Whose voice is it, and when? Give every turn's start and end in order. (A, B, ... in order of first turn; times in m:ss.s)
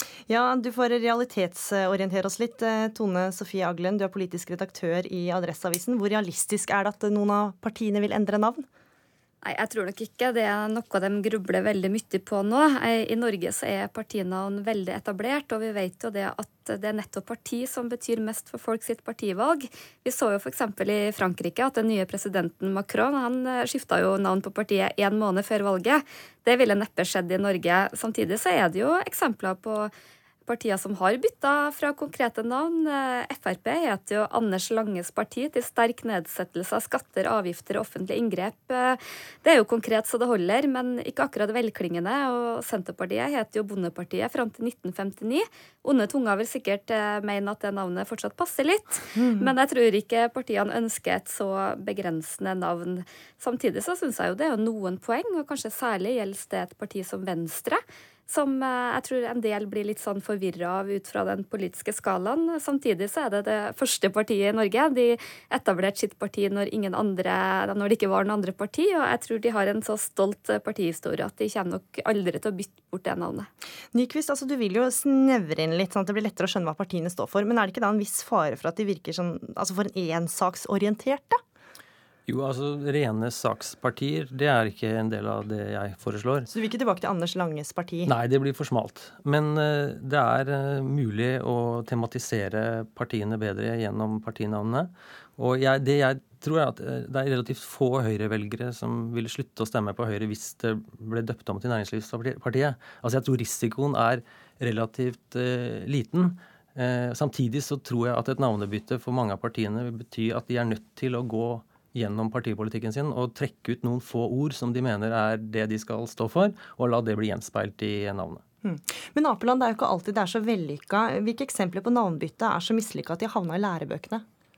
0:00.3-0:08.6 A
0:09.4-0:29.9 B
0:30.5-1:13.5 B
0:49.1-0:49.5 A
1:13.9-1:21.4 A
1:22.3-1:26.5 C
1:26.5-1:28.1 A
1:28.1-1:58.4 C
1:58.6-2:04.2 A